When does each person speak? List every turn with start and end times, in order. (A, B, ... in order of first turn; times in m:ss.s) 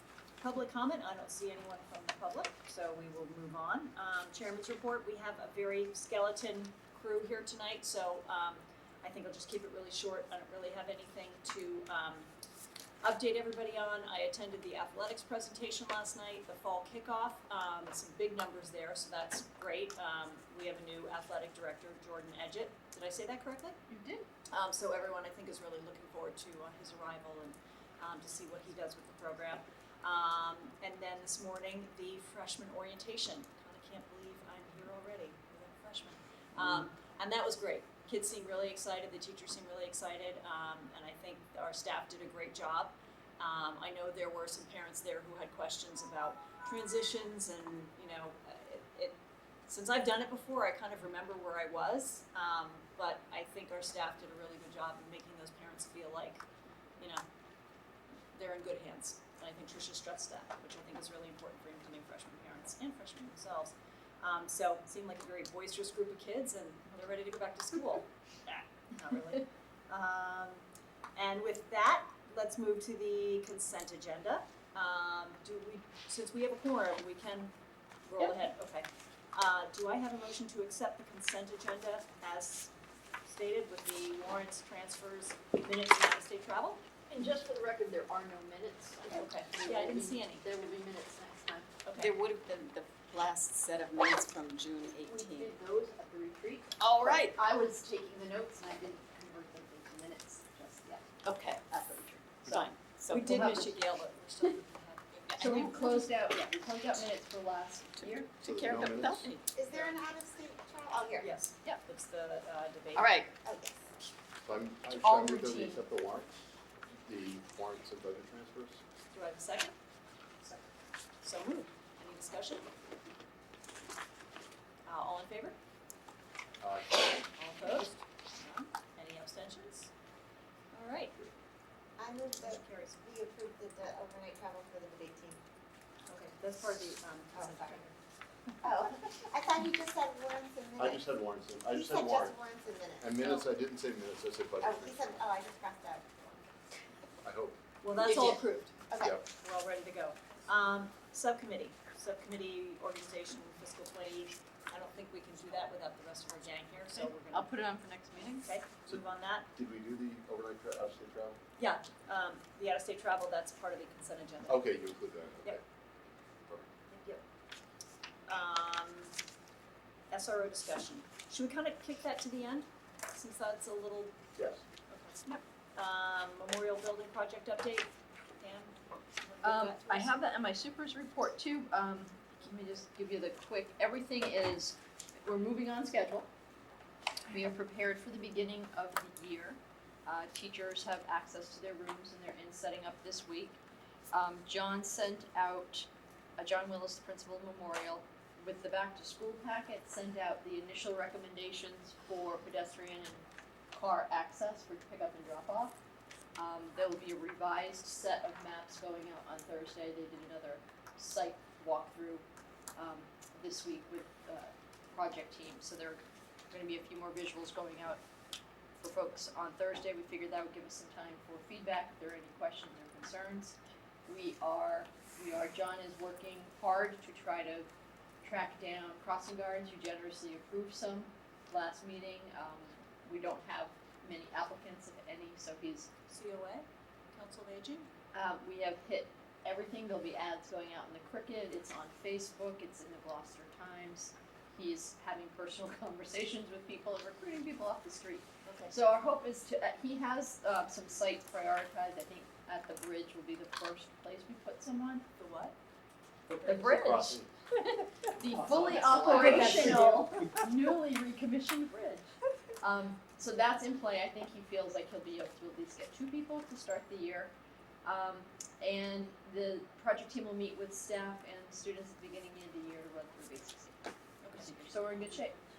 0:00.4-0:12.3 A
0:13.0-0:23.8 A
0:23.9-0:24.2 B
0:24.5-0:56.4 A
0:57.0-0:57.2 A
0:58.3-1:10.6 A
1:11.2-1:17.5 A
1:18.1-1:22.7 A
1:23.2-1:26.8 A
1:27.1-1:31.7 B
1:29.1-1:30.7 A
1:31.8-1:32.2 A
1:31.9-1:35.5 C
1:35.1-1:42.3 B
1:36.8-1:37.4 C
1:41.2-1:41.6 C
1:42.5-1:46.0 A
1:42.5-1:43.5 C
1:43.2-1:43.8 B
1:45.3-1:46.0 C
1:45.4-1:48.3 B
1:48.0-1:49.4 C
1:48.4-1:49.3 D
1:49.6-1:51.3 E
1:49.6-1:50.0 A
1:51.2-1:53.1 A
1:53.0-1:53.3 C
1:53.4-1:54.0 E
1:54.4-1:56.4 D
1:54.9-1:55.8 B
1:57.0-1:58.8 D
1:59.1-1:59.8 A
2:01.2-2:02.7 A
2:04.9-2:05.6 A
2:06.6-2:07.2 D
2:07.4-2:09.9 A
2:10.7-2:11.2 A
2:12.0-2:15.4 E
2:12.4-2:13.0 A
2:16.1-2:17.9 A
2:17.3-2:17.9 E
2:18.6-2:21.1 E
2:20.8-2:22.4 D
2:21.7-2:23.5 E
2:23.0-2:25.2 D
2:24.6-2:27.1 E
2:27.2-2:27.6 D
2:27.8-2:28.8 A
2:28.0-2:28.4 B
2:28.9-2:29.2 E
2:29.4-2:37.5 A
2:36.9-2:38.5 B
2:38.4-2:39.5 A
2:38.9-2:41.4 D
2:41.6-2:44.7 A
2:44.5-2:45.6 D
2:46.9-2:47.2 A
2:48.3-2:49.2 A
2:50.1-2:54.2 A
2:54.4-2:54.6 D
2:54.9-3:00.2 A
2:59.4-3:06.3 B
3:07.3-3:13.6 B
3:14.1-3:25.8 B
3:26.4-3:32.2 B
3:32.8-3:38.0 B
3:38.8-3:47.7 B
3:48.2-3:55.9 B
3:56.1-3:57.9 A
3:58.1-4:15.0 B
4:08.5-4:08.8 A
4:15.2-4:15.6 A
4:16.3-4:17.3 D
4:16.4-4:16.8 A
4:16.4-4:17.2 B
4:18.2-4:27.3 B
4:18.4-4:20.0 D
4:18.4-4:20.3 A
4:18.6-4:19.8 C
4:27.8-4:35.4 B
4:34.2-4:35.1 A